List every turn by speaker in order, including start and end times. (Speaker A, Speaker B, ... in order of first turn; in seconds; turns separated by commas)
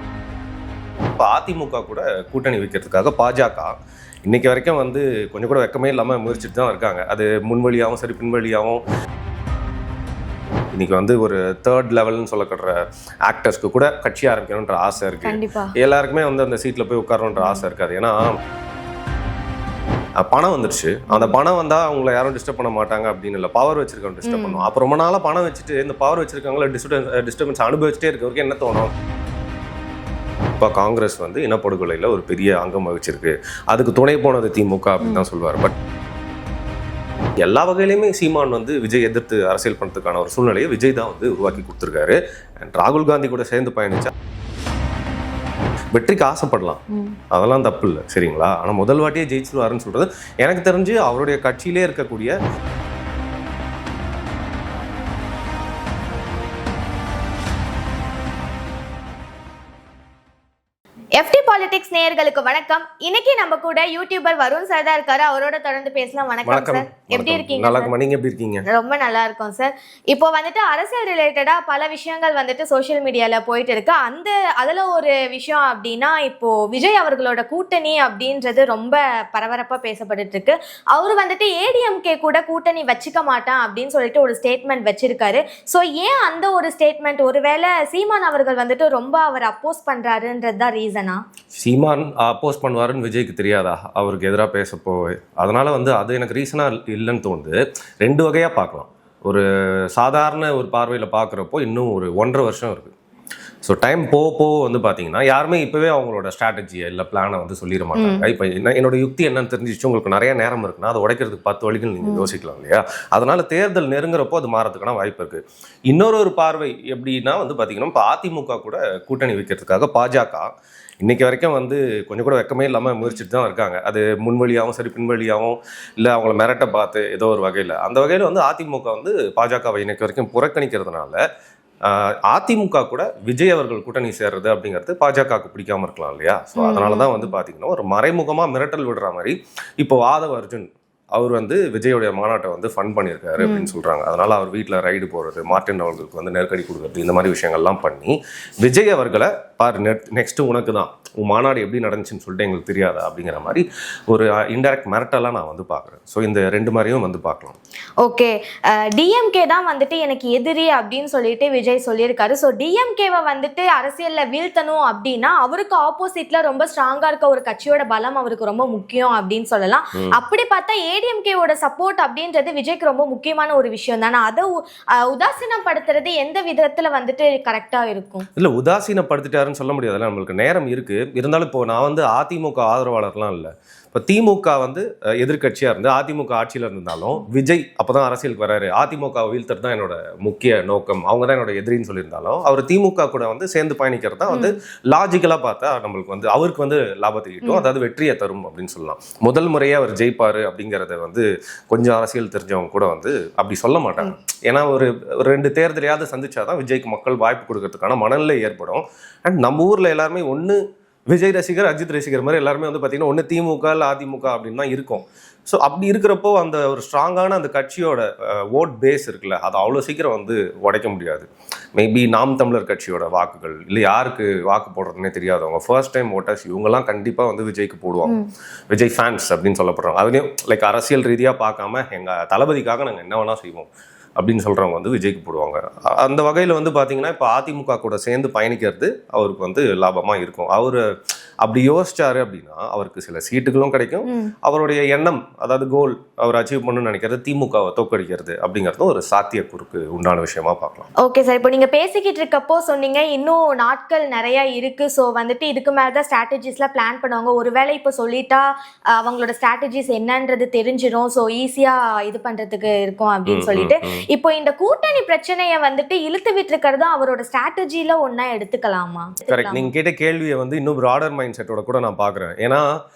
Speaker A: 1.2-3.7, Speaker A: 4.3-8.8, Speaker A: 10.7-18.4, Speaker B: 15.2-15.7, Speaker B: 17.4-17.6, Speaker A: 20.2-28.9, Speaker B: 21.1-21.4, Speaker B: 24.2-24.7, Speaker A: 30.6-35.8, Speaker A: 37.4-44.1, Speaker A: 45.9-52.4, Speaker B: 46.9-47.2, Speaker B: 61.2-67.9, Speaker A: 66.5-68.7, Speaker B: 68.7-91.2, Speaker A: 91.5-102.9, Speaker A: 103.6-120.5, Speaker B: 108.0-108.3, Speaker B: 112.0-112.3, Speaker A: 121.0-131.2, Speaker A: 131.8-157.6, Speaker B: 136.6-137.3, Speaker B: 143.4-143.7, Speaker B: 158.0-178.3, Speaker A: 178.4-210.6, Speaker B: 194.3-194.6, Speaker A: 211.1-228.2, Speaker A: 228.7-240.8, Speaker A: 241.4-250.9, Speaker B: 244.1-244.3, Speaker B: 251.0-269.7, Speaker A: 263.3-264.0, Speaker A: 269.3-272.6